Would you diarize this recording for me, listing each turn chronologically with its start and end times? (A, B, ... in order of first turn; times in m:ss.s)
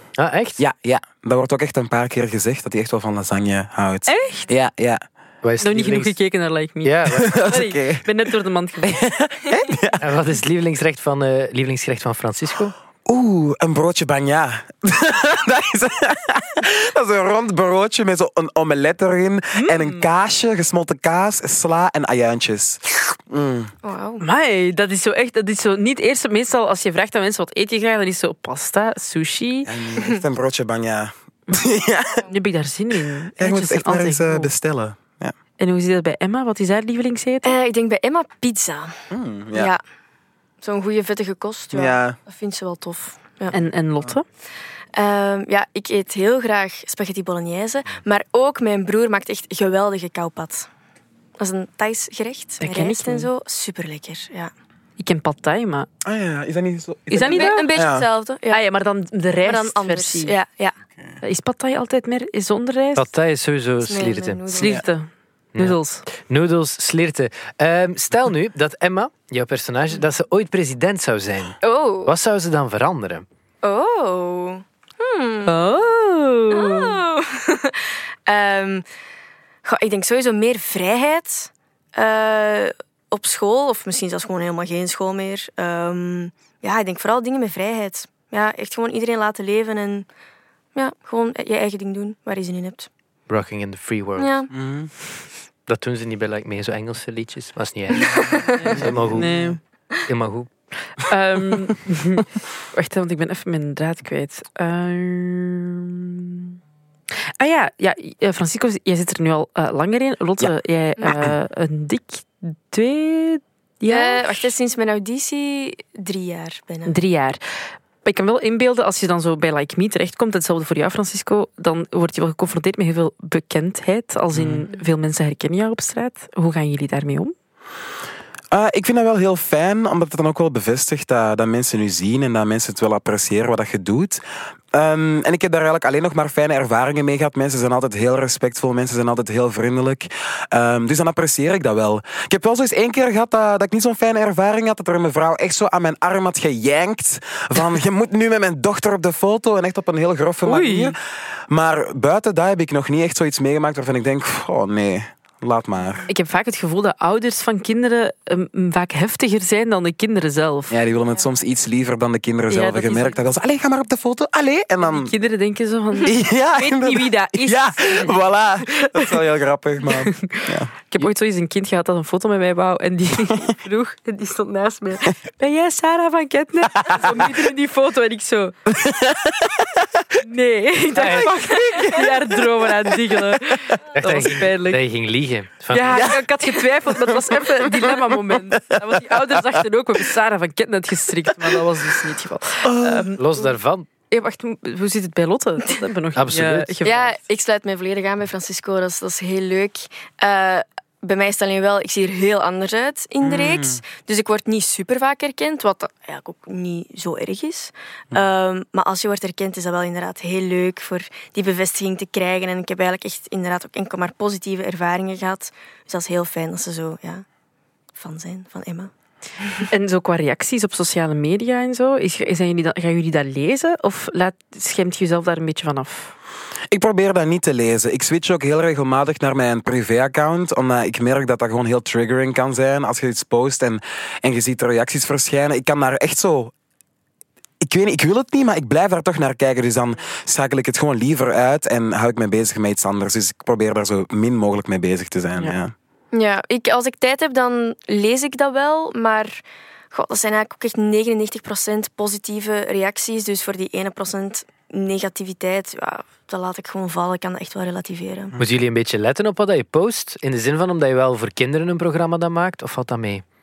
0:00.2-0:00.6 A
0:00.6-0:05.0 B
0:04.1-0:04.5 C
0:05.4-0:06.2 A
0:05.6-0:09.0 C
0:06.8-0:07.3 A
0:07.1-0:08.3 B
0:08.8-0:10.0 B
0:10.0-0:12.7 A
0:13.0-0:23.7 B
0:19.6-0:20.0 C
0:23.8-0:24.2 D
0:24.2-0:29.7 C
0:29.6-0:32.2 B
0:32.2-0:34.5 C
0:33.4-0:35.3 B
0:35.6-0:37.6 C
0:37.4-0:39.0 D
0:39.1-0:39.7 B
0:39.5-0:39.8 D
0:40.6-0:43.6 D
0:41.7-0:42.2 B
0:43.5-0:44.2 C
0:44.9-0:50.7 D
0:51.4-0:54.5 D
0:52.6-0:53.3 C
0:55.0-0:55.9 C
0:56.0-0:58.0 B
0:57.1-0:57.7 C
0:57.2-0:58.6 D
0:58.5-1:00.3 C
0:59.4-1:00.7 D
1:01.2-1:03.1 C
1:03.0-1:04.4 A
1:03.8-1:04.8 D
1:04.5-1:06.0 C
1:05.5-1:13.2 A
1:11.6-1:12.1 D
1:13.6-1:15.6 D
1:15.4-1:17.0 C
1:16.5-1:18.8 D
1:19.6-1:30.1 D
1:30.7-1:32.9 D
1:33.3-1:34.3 A
1:34.2-1:34.5 D
1:34.5-1:34.9 B
1:35.7-1:40.5 A
1:38.1-1:38.6 D
1:38.5-1:39.6 C
1:38.7-1:39.5 B
1:41.0-1:46.6 C
1:47.4-1:54.3 C
1:53.8-1:57.0 D
1:56.8-1:57.4 C
1:58.0-2:07.3 C
2:04.3-2:04.7 B
2:08.5-2:36.1 B
2:30.4-2:31.0 C
2:36.1-2:40.8 C
2:40.7-2:45.1 B
2:42.5-2:43.2 C
2:44.8-2:48.2 C
2:46.0-2:50.7 B
2:48.7-2:49.2 C
2:49.8-2:58.6 C
2:56.7-2:57.4 B
2:58.7-2:59.8 B
3:00.2-3:04.8 C
3:00.9-3:01.3 A
3:01.0-3:03.8 B
3:03.9-3:06.2 A
3:05.7-3:13.5 C
3:05.9-3:09.6 B
3:12.6-3:13.1 B
3:13.2-3:13.9 A
3:14.1-3:17.2 C
3:16.2-3:16.8 A
3:16.8-3:37.2 D
3:23.2-3:23.8 B
3:38.0-3:38.9 D
3:39.7-3:46.1 C
3:46.7-3:56.5 B
3:57.6-4:05.7 B
4:06.1-4:18.3 D
4:18.4-4:23.2 A